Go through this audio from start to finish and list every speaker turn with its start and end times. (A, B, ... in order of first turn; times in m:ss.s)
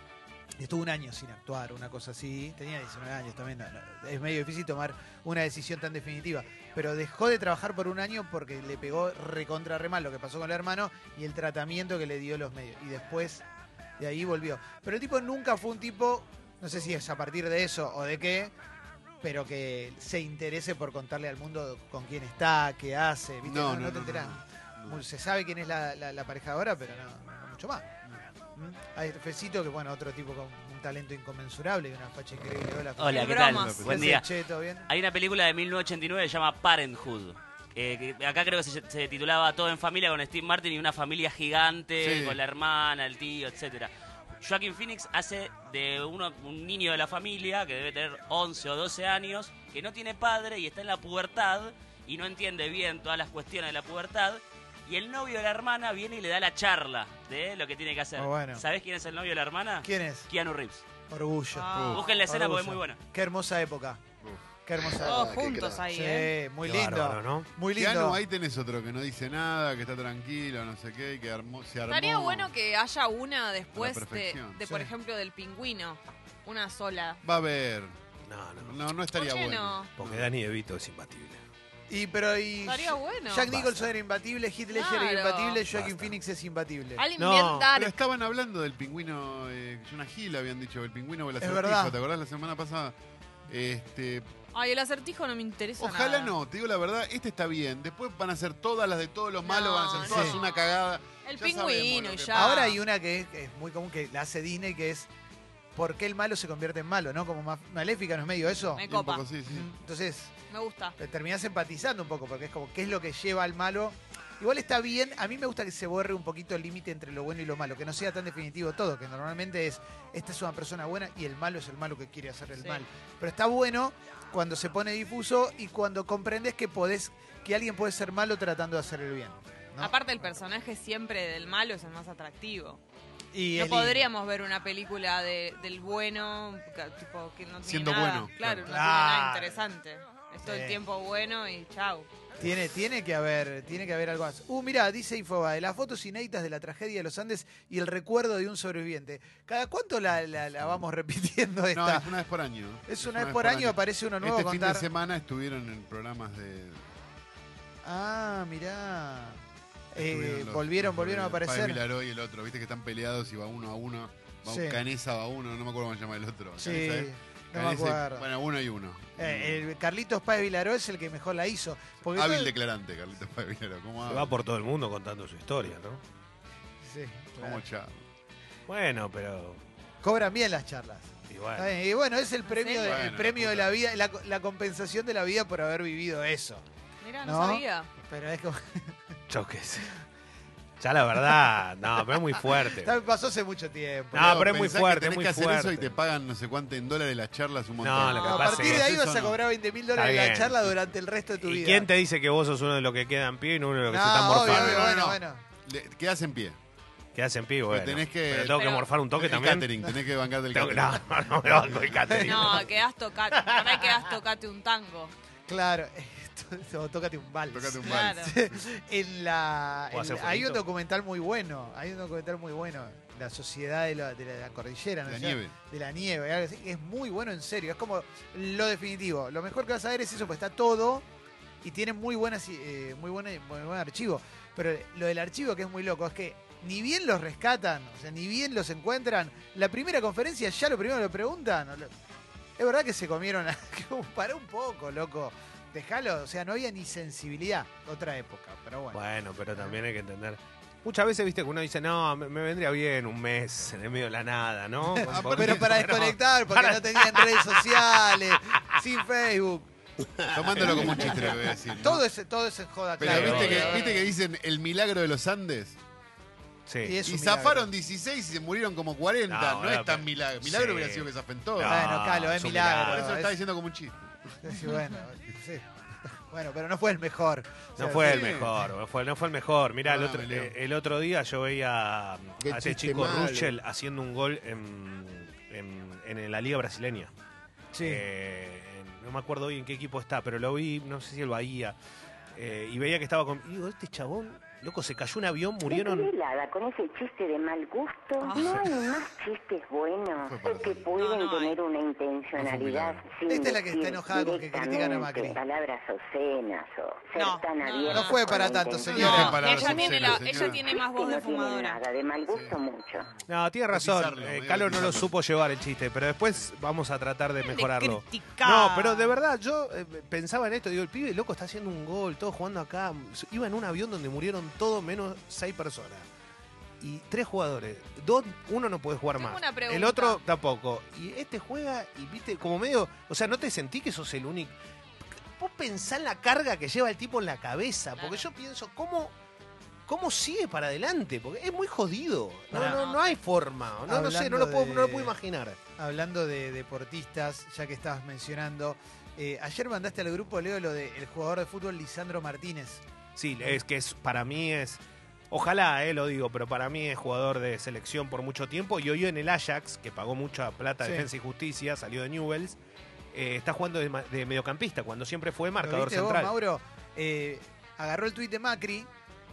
0:00.6-0:13.4 A
0:14.0-0:18.5 A
0:19.2-0:27.9 A
0:23.4-0:25.0 B
0:28.6-0:34.9 A
0:33.0-0:34.3 C
0:33.1-0:34.1 D
0:33.4-0:34.2 B
0:34.9-1:00.8 C
0:42.0-0:42.4 B
0:58.2-0:58.6 A
0:59.8-1:00.3 A
1:01.1-1:04.0 A
1:01.5-1:02.2 D
1:01.7-1:02.1 B
1:01.9-1:03.0 C
1:04.7-1:08.2 A
1:05.0-1:06.3 D
1:06.6-1:07.5 E
1:07.7-1:12.5 B
1:11.9-1:17.2 D
1:13.7-1:14.6 B
1:14.6-1:14.9 A
1:17.2-1:18.0 B
1:18.3-1:18.8 E
1:18.6-1:20.3 B
1:19.1-1:19.9 D
1:20.0-1:21.4 E
1:21.9-1:27.0 A
1:22.6-1:23.5 D
1:23.5-1:23.9 E
1:24.7-1:25.6 D
1:25.7-1:26.1 E
1:27.0-1:28.0 D
1:27.2-1:27.7 E
1:27.7-1:33.0 B
1:31.4-1:32.0 A
1:33.5-1:34.3 B
1:34.5-1:36.4 D
1:35.8-1:42.7 B
1:39.4-1:40.4 D
1:40.0-1:40.4 A
1:41.2-1:42.8 D
1:42.3-1:45.1 A
1:45.8-1:48.8 A
1:48.8-1:49.2 D
1:48.8-1:49.7 B
1:49.5-1:50.3 A
1:50.5-1:51.0 D
1:51.0-2:09.9 A
2:02.6-2:02.8 D
2:09.8-2:12.8 D
2:13.3-2:14.1 A
2:13.5-2:22.1 D
2:17.6-2:18.7 B
2:18.6-2:19.6 A
2:20.4-2:20.8 A
2:22.4-2:32.1 A
2:31.7-2:36.9 B
2:32.9-2:34.9 A
2:37.8-2:39.4 A
2:39.9-2:41.8 A
2:40.0-2:49.6 B
2:44.5-2:44.8 A
2:46.6-2:48.3 A
2:49.2-2:52.5 A
2:52.1-2:54.4 B
2:54.1-2:56.0 E
2:56.8-2:57.6 A
2:57.4-2:58.0 B
2:58.7-2:59.6 E
3:00.0-3:06.6 A
3:01.3-3:01.7 E
3:02.5-3:03.0 D
3:02.8-3:03.7 B
3:07.0-3:07.9 D
3:07.2-3:09.1 A
3:09.3-3:10.0 E
3:10.8-3:13.0 E
3:12.5-3:14.5 A
3:14.1-3:15.9 E
3:14.1-3:19.4 B
3:17.8-3:18.9 E
3:18.2-3:21.9 A
3:20.0-3:20.6 E
3:21.4-3:25.0 E
3:23.9-3:25.4 A
3:24.3-3:26.6 B
3:27.2-3:29.7 E
3:27.7-3:32.4 B
3:28.6-3:28.9 D
3:30.5-3:32.7 E
3:32.1-3:32.6 A
3:32.3-3:35.1 D
3:33.4-3:33.6 E
3:35.5-3:51.0 A
3:37.5-3:38.7 B
3:37.8-3:38.3 D
3:39.9-3:40.6 E
3:45.0-3:45.6 B
3:51.6-4:01.9 A
4:02.6-4:09.0 A
4:08.9-4:18.8 E
4:14.9-4:19.7 A
4:15.0-4:16.0 B
4:20.2-4:21.4 E
4:20.3-4:22.0 B
4:20.6-4:21.3 A
4:21.8-4:24.1 A
4:23.0-4:25.8 B
4:23.0-4:23.9 E
4:26.7-4:27.0 E
4:26.8-4:27.7 A
4:27.0-4:31.9 B
4:29.3-4:33.1 E
4:31.6-4:33.3 A
4:32.9-4:34.5 B
4:34.4-4:38.7 A
4:37.8-4:47.1 E
4:38.0-4:38.5 B
4:39.8-4:40.6 B
4:42.4-4:43.6 B
4:47.7-4:48.0 A
4:47.8-4:51.8 E
4:52.4-4:56.1 E
4:55.6-5:13.1 F
4:58.2-4:58.7 D
4:58.4-4:58.7 B
5:00.2-5:00.9 B
5:01.0-5:01.6 D
5:02.4-5:03.0 B
5:03.3-5:05.4 A
5:07.2-5:11.8 D
5:07.9-5:09.6 A
5:08.8-5:10.6 B
5:12.3-5:15.2 B
5:13.3-5:26.1 E
5:17.4-5:19.2 D
5:26.8-5:34.5 E
5:29.2-5:30.2 D
5:35.4-5:39.1 E
5:38.0-5:38.3 D
5:39.9-5:45.6 E
5:42.5-5:42.8 A
5:42.5-5:43.2 D
5:43.9-5:45.1 A
5:45.8-5:52.8 A
5:53.2-6:02.6 E
6:00.8-6:01.1 A
6:03.1-6:06.4 E
6:05.6-6:08.9 A